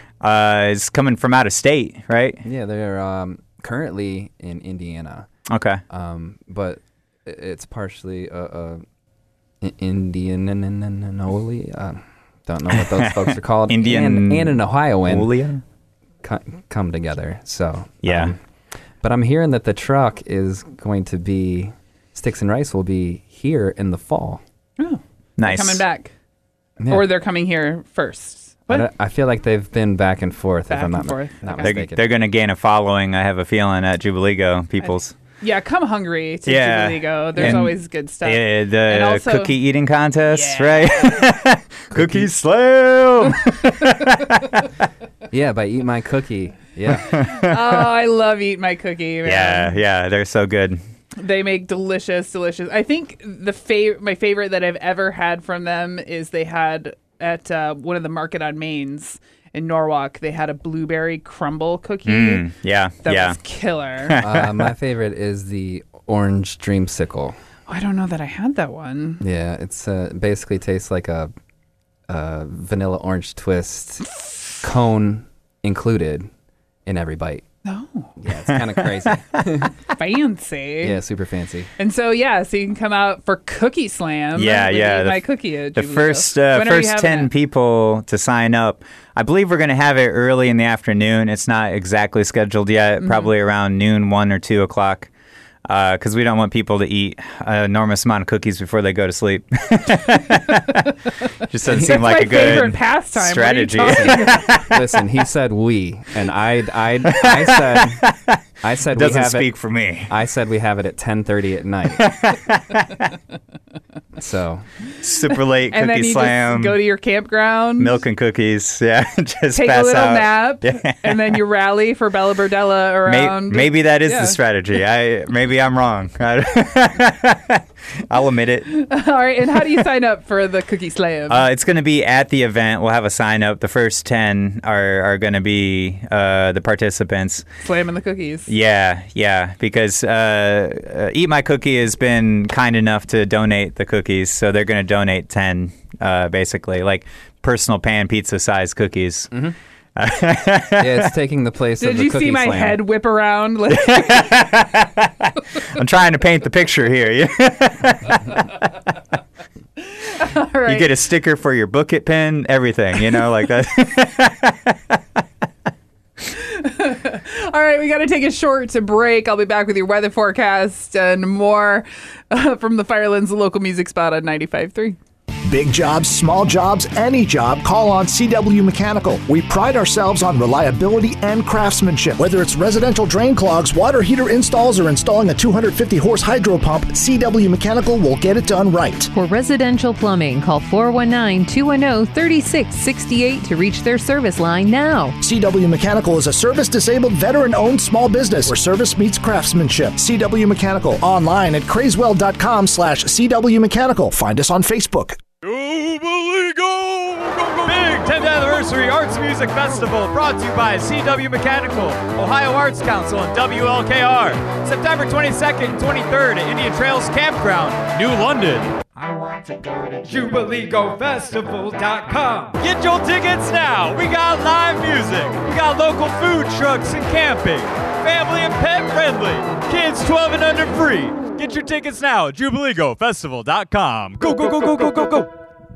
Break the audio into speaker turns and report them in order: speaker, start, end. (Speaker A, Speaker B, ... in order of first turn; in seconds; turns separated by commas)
Speaker A: 0.2-2.4, Speaker B: 2.4-5.3, Speaker A: 5.5-5.8, Speaker B: 5.9-8.8, Speaker B: 9.6-15.3, Speaker A: 13.0-15.6, Speaker B: 16.2-18.4, Speaker A: 18.0-18.3, Speaker B: 19.0-24.4, Speaker C: 24.8-26.1, Speaker A: 25.4-25.8, Speaker B: 26.8-27.1, Speaker C: 26.9-28.9, Speaker B: 28.7-32.0, Speaker C: 30.7-31.8, Speaker A: 31.6-35.1, Speaker C: 34.8-39.5, Speaker A: 36.5-44.1, Speaker B: 37.4-37.7, Speaker C: 40.3-41.2, Speaker B: 41.9-42.3, Speaker B: 45.3-47.2, Speaker C: 47.2-49.8, Speaker A: 49.2-50.8, Speaker C: 51.1-62.5, Speaker A: 62.0-63.4, Speaker C: 63.0-64.2, Speaker A: 64.0-64.7, Speaker B: 64.2-67.4, Speaker C: 67.7-69.2, Speaker B: 69.2-71.3, Speaker B: 72.1-74.0, Speaker B: 74.6-76.3, Speaker B: 76.8-77.4, Speaker C: 77.7-78.1, Speaker B: 78.2-79.7, Speaker C: 79.9-81.0, Speaker B: 80.8-81.7, Speaker C: 81.8-87.3, Speaker A: 84.3-95.1, Speaker C: 93.0-93.3, Speaker A: 95.7-100.8, Speaker A: 101.5-104.8, Speaker C: 101.7-104.5, Speaker B: 103.8-108.0, Speaker A: 107.1-108.4, Speaker B: 108.6-109.5, Speaker A: 108.9-110.1, Speaker B: 110.1-112.1, Speaker A: 112.0-113.0, Speaker B: 114.2-114.7, Speaker A: 115.0-116.8, Speaker C: 115.7-118.0, Speaker A: 117.8-121.2, Speaker C: 119.5-124.4, Speaker A: 123.0-128.7, Speaker C: 128.7-131.4, Speaker A: 131.3-137.4, Speaker C: 137.6-138.5, Speaker A: 138.5-149.3, Speaker A: 149.9-151.1, Speaker B: 150.8-152.8, Speaker C: 151.8-154.3, Speaker A: 153.8-158.4, Speaker C: 159.9-160.9, Speaker A: 160.7-165.0, Speaker C: 166.3-175.0, Speaker D: 175.5-189.1, Speaker E: 189.1-195.2, Speaker D: 195.2-205.2, Speaker F: 205.4-235.3